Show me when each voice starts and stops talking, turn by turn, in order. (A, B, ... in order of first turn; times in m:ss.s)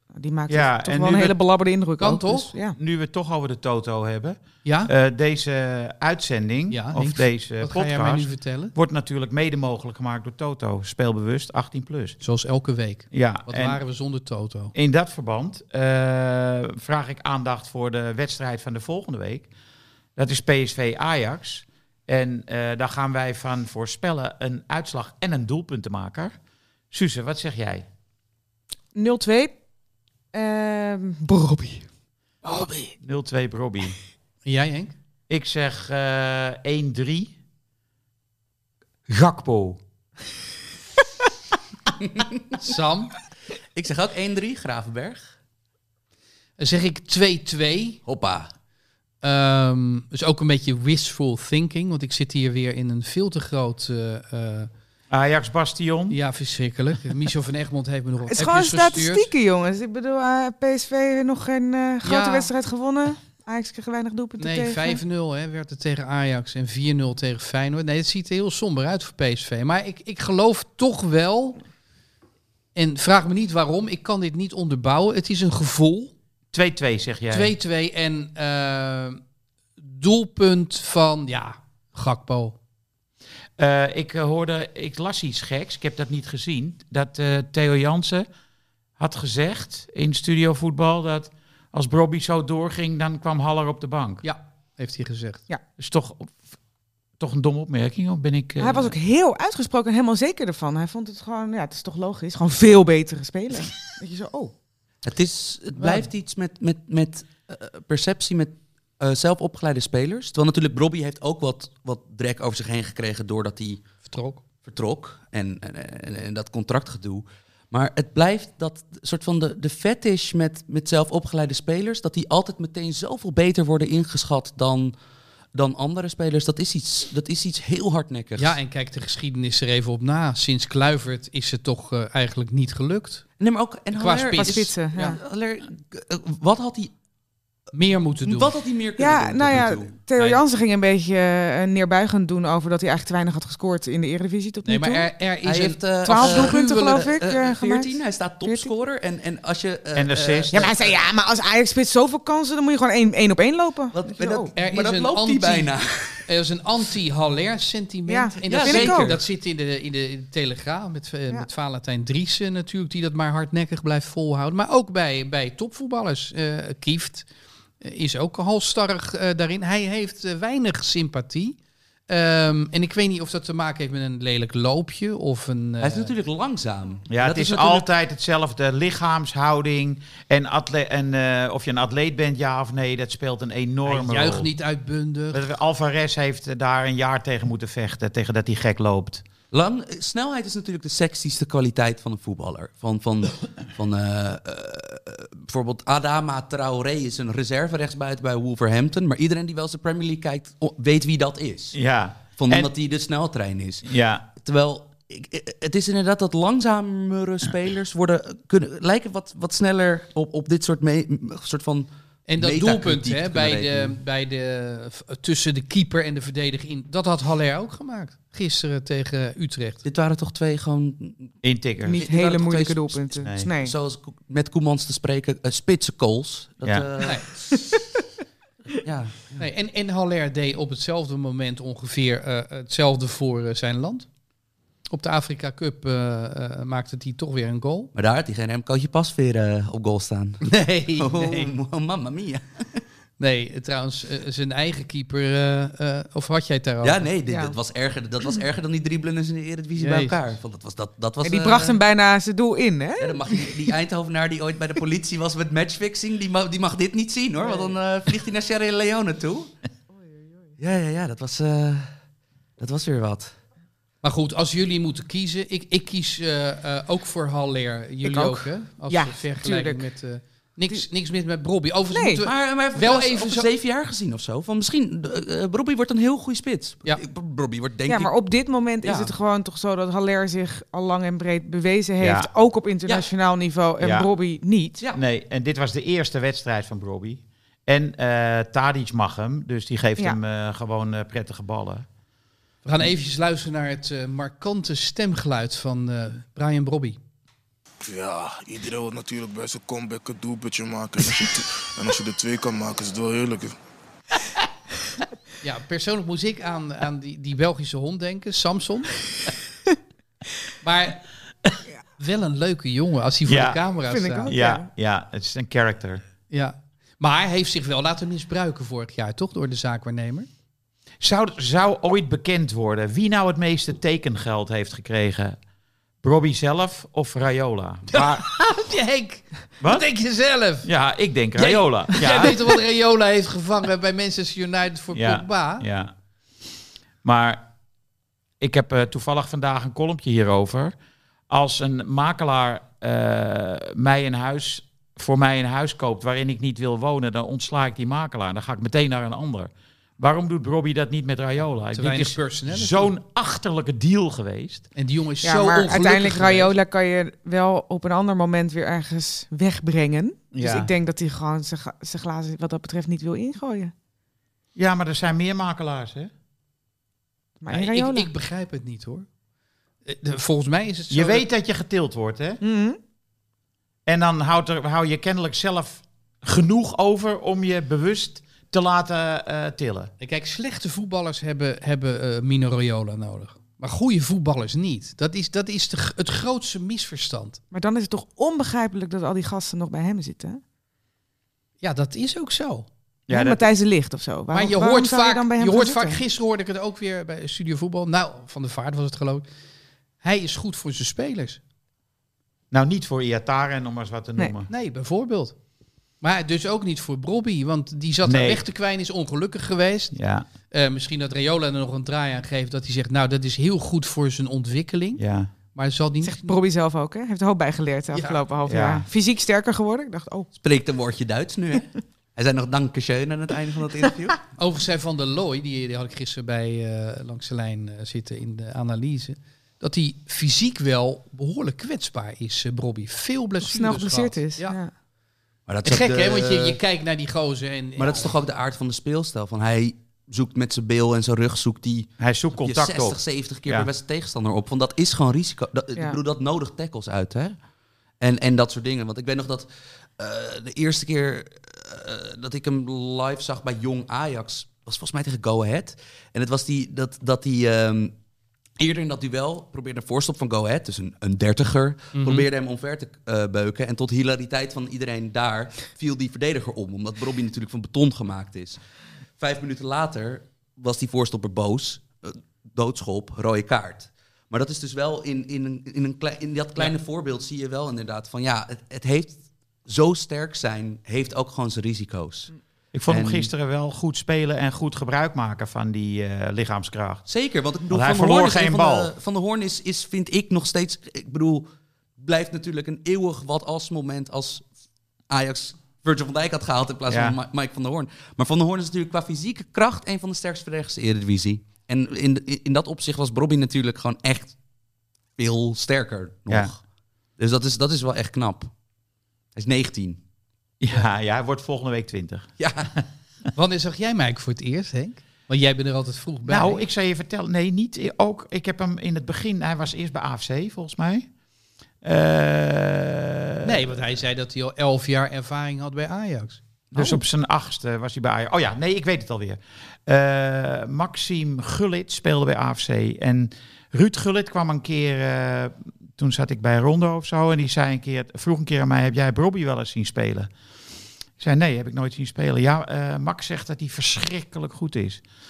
0:00.2-0:02.8 A
0:00.5-0:01.4 B
0:02.0-0:02.5 C
0:02.8-0:12.2 B
0:04.6-0:04.9 C
0:06.7-0:08.7 C
0:12.2-0:14.7 C
0:13.1-0:13.8 B
0:14.7-0:19.5 B
0:20.2-0:26.3 B
0:26.9-0:27.8 B
0:28.9-0:29.5 A
0:30.3-0:31.8 A
0:33.0-0:34.0 B
0:34.4-0:34.9 C
0:35.3-0:37.3 B
0:39.1-0:39.8 B
0:42.6-0:43.1 C
0:43.7-0:45.3 D
0:46.6-0:48.0 C
0:48.0-0:48.5 D
0:49.2-0:54.7 C
0:55.1-0:56.2 B
0:56.1-0:59.3 C
0:58.3-1:05.0 A
1:02.0-1:02.5 C
1:04.4-1:11.6 C
1:12.7-1:16.1 C
1:16.5-1:17.5 B
1:17.3-1:19.2 C
1:19.8-1:22.6 C
1:23.6-1:28.3 B
1:29.0-1:34.2 B
1:34.2-1:35.4 C
1:35.8-1:36.4 B
1:37.2-1:38.9 B
1:38.6-1:44.5 A
1:45.0-1:53.8 D
1:54.0-1:54.4 C
1:54.6-2:04.9 D
2:05.5-2:08.6 D
2:08.4-2:13.2 C
2:13.4-2:16.9 D
2:13.9-2:15.2 C
2:14.4-2:15.2 A
2:17.7-2:18.5 C
2:18.2-2:20.0 D
2:19.0-2:25.1 A
2:24.6-2:27.0 C
2:25.4-2:31.0 D
2:26.0-2:27.9 A
2:28.4-2:28.7 A
2:30.0-2:30.7 B
2:30.5-2:34.5 A
2:33.9-2:36.2 D
2:34.5-2:35.7 C
2:36.2-2:47.2 C
2:38.1-2:39.1 A
2:38.5-2:39.2 D
2:47.8-2:51.6 C
2:52.1-2:56.1 C
2:55.8-2:57.9 D
2:57.1-3:04.5 B
3:03.8-3:05.4 C
3:05.3-3:09.2 B
3:09.5-3:21.8 D
3:21.7-3:22.7 B
3:22.4-3:34.0 D
3:23.8-3:24.2 B
3:32.3-3:39.8 C
3:39.8-3:41.3 D
3:41.4-3:42.0 B
3:41.8-3:43.7 A
3:41.9-3:43.1 D
3:43.2-3:43.5 B
3:43.6-3:47.5 D
3:48.7-3:49.4 D
3:49.4-3:54.1 C
3:54.9-3:57.9 C
3:57.9-4:02.8 D
4:00.4-4:01.5 C
4:03.2-4:07.0 C
4:06.8-4:11.8 D
4:07.3-4:07.6 A
4:09.8-4:10.2 C
4:11.2-4:13.4 A
4:13.0-4:19.5 D
4:20.6-4:21.9 D
4:22.6-4:23.4 D
4:24.0-4:33.5 C
4:28.0-4:29.9 A
4:31.9-4:32.2 A
4:32.2-4:38.1 D
4:37.9-4:44.8 A
4:38.8-4:39.1 D
4:42.0-4:42.3 B
4:43.8-4:44.1 B
4:44.9-4:51.8 B
4:52.6-4:57.0 C
4:57.8-5:03.6 E
5:05.4-5:09.0 C
5:10.6-5:11.0 C
5:12.0-5:14.3 C
5:13.3-5:13.6 B
5:13.8-5:14.6 A
5:14.3-5:16.0 B
5:16.3-5:20.3 C
5:21.0-5:25.4 B
5:26.0-5:28.3 B
5:27.9-5:30.7 C
5:29.6-5:29.8 B
5:30.6-5:32.4 B
5:31.4-5:35.6 C
5:34.9-5:35.9 B
5:37.0-5:37.5 B
5:38.4-5:40.7 B
5:41.3-5:54.7 B
5:51.7-5:52.9 C
5:54.8-5:56.6 C
5:55.2-6:03.7 A
6:00.3-6:00.7 B
6:04.6-6:06.1 B
6:07.4-6:08.1 A
6:07.5-6:09.1 C
6:09.8-6:11.2 C
6:10.9-6:12.4 B
6:12.4-6:12.8 A
6:13.8-6:19.9 B
6:20.0-6:27.4 C
6:27.5-6:30.4 A
6:31.6-6:32.7 C
6:33.1-6:33.5 B
6:33.1-6:36.0 A
6:34.3-6:39.2 C
6:40.0-6:41.4 C
6:42.5-6:44.5 B
6:44.5-6:45.3 C
6:46.0-6:50.0 C
6:48.0-6:48.4 B
6:49.9-6:50.2 B
6:50.5-6:55.0 C
6:55.0-6:55.3 B
6:55.5-6:56.3 C
6:56.0-7:00.3 A
6:57.9-6:58.2 C
6:58.5-6:58.8 B
7:00.4-7:04.2 D
7:04.4-7:14.6 C
7:13.4-7:14.7 A
7:15.5-7:16.6 D
7:15.6-7:18.1 C
7:17.8-7:27.4 D
7:22.0-7:23.7 B
7:28.0-7:37.9 D
7:38.6-7:48.6 D
7:41.9-7:42.3 C
7:49.2-8:02.3 D
8:02.7-8:07.0 B
8:02.9-8:03.3 D
8:07.0-8:11.5 D
8:07.7-8:08.9 B
8:12.0-8:14.4 D
8:15.1-8:24.3 D
8:16.9-8:17.2 B
8:25.2-8:26.6 D
8:27.2-8:28.5 D
8:29.4-8:30.0 D
8:30.6-8:32.8 B
8:32.4-8:32.7 D
8:33.3-8:36.6 C
8:36.2-8:41.1 B
8:41.8-8:43.7 B
8:43.4-8:47.0 C
8:46.7-9:00.3 B
9:01.2-9:05.0 B